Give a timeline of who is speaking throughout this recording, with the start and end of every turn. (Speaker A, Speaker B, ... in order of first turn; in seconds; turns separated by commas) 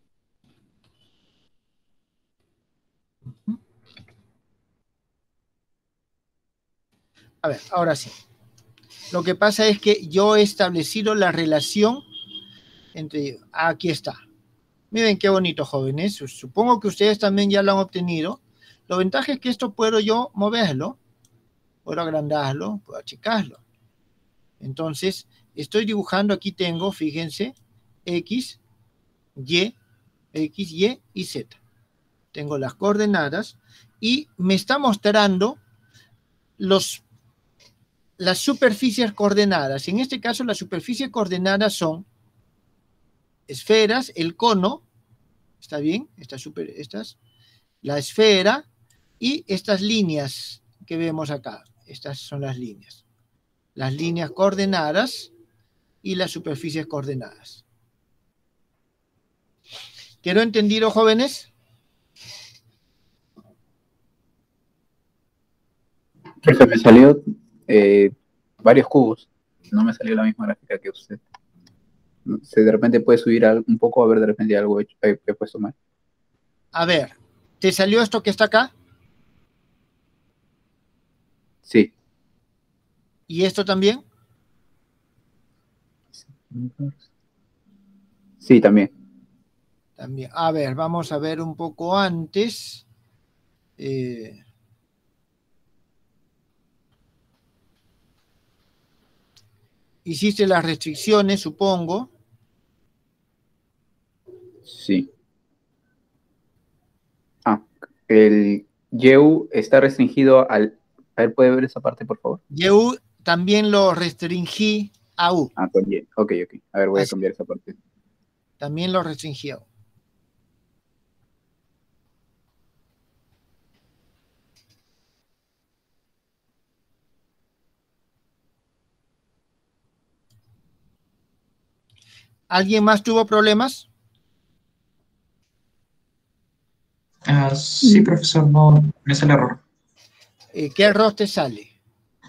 Speaker A: 3.3-3.6, Speaker A: 7.4-8.2, Speaker A: 9.1-12.1, Speaker A: 12.9-14.2, Speaker A: 14.9-21.0, Speaker A: 21.9-23.6, Speaker A: 24.6-27.6, Speaker A: 28.1-28.6, Speaker A: 29.4-29.8, Speaker A: 30.3-31.6, Speaker A: 32.3-35.6, Speaker A: 36.6-37.0, Speaker A: 38.2-42.1, Speaker A: 43.5-44.8, Speaker A: 45.6-47.2, Speaker A: 47.8-48.7, Speaker A: 49.2-53.0, Speaker A: 53.8-55.3, Speaker A: 56.0-57.6, Speaker A: 60.2-61.5, Speaker B: 66.4-71.2, Speaker B: 72.3-75.8, Speaker A: 76.7-78.7, Speaker B: 81.7-81.9, Speaker A: 83.3-84.0, Speaker B: 86.5-86.9, Speaker B: 88.4-88.9, Speaker A: 90.0-92.8, Speaker A: 93.8-94.4, Speaker A: 100.0-102.1, Speaker B: 104.7-105.1, Speaker B: 107.5-112.4, Speaker A: 112.5-115.5, Speaker B: 115.6-117.8, Speaker A: 118.6-119.7, Speaker A: 132.5-133.9, Speaker C: 137.3-139.6, Speaker A: 140.5-141.7